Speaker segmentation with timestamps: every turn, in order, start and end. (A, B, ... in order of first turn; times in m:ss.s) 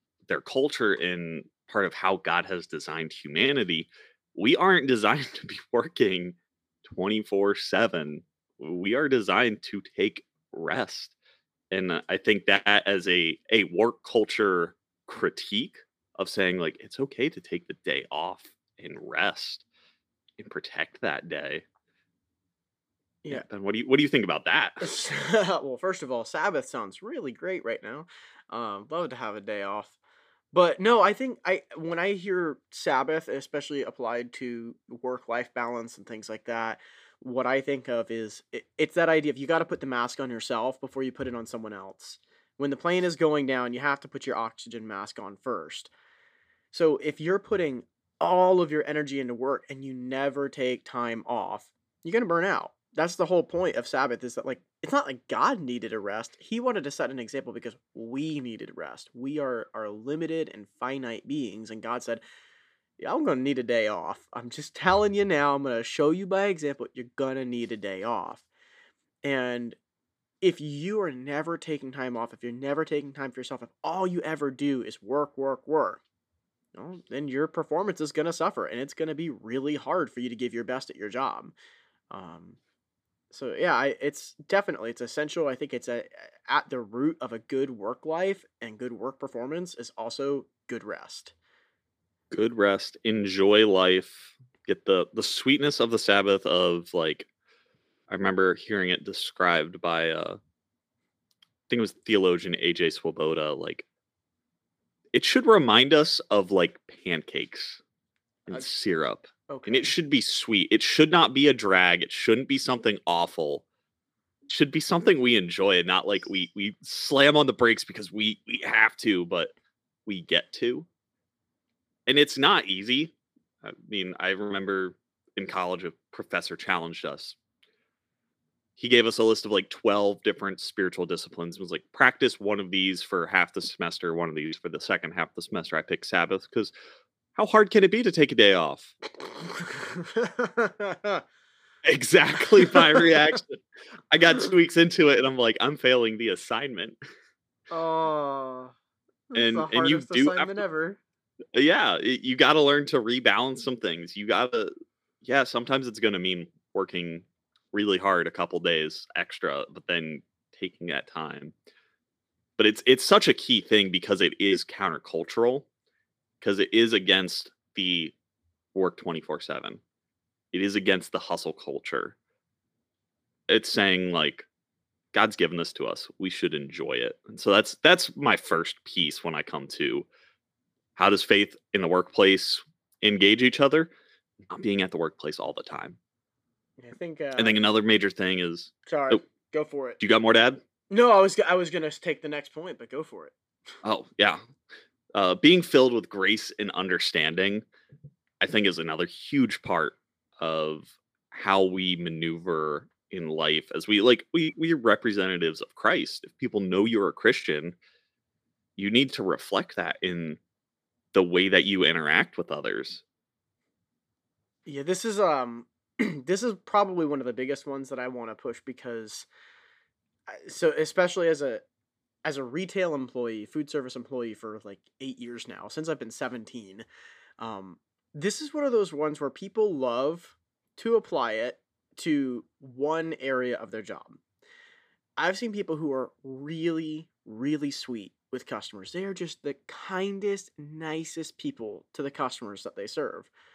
0:00.2-0:11.2 A
0:11.7-0:19.6 A
0:20.4-0:21.6 A
0:23.3-0:24.9 A
0:24.8-0:30.0 B
0:30.5-0:45.9 B
0:46.7-1:02.2 B
1:03.0-1:08.5 B
1:09.2-1:09.8 B
1:10.4-1:16.0 B
1:16.7-1:21.5 B
1:22.1-1:22.6 B
1:23.3-1:31.3 B
1:32.3-1:37.3 A
1:38.1-1:40.4 A
1:41.7-1:43.9 A
1:45.1-1:47.8 A
1:48.5-1:53.6 A
1:49.5-1:49.9 B
1:54.5-1:59.5 A
2:00.1-2:00.9 A
2:02.1-2:07.4 A
2:08.8-2:16.7 A
2:17.4-2:18.9 A
2:19.3-2:21.2 B
2:21.8-2:27.0 A
2:22.4-2:23.4 B
2:27.7-2:28.7 B
2:29.3-2:31.0 B
2:29.4-2:30.6 A
2:31.5-2:41.6 A
2:42.6-2:45.7 A
2:46.4-2:48.2 A
2:48.7-2:49.8 A
2:50.5-2:52.2 A
2:53.5-2:54.5 A
2:55.1-3:00.1 A
3:01.0-3:03.9 A
3:04.5-3:06.0 A
3:06.8-3:07.6 B
3:07.4-3:09.2 A
3:08.9-3:10.0 B
3:10.0-3:10.6 A
3:10.9-3:13.3 B
3:13.8-3:14.4 A
3:15.1-3:17.7 A
3:18.4-3:27.8 A
3:28.8-3:30.4 A
3:31.1-3:33.0 A
3:34.7-3:39.3 B
3:40.3-3:41.6 B
3:42.2-3:46.8 B
3:47.4-3:54.2 B
3:55.2-4:03.3 B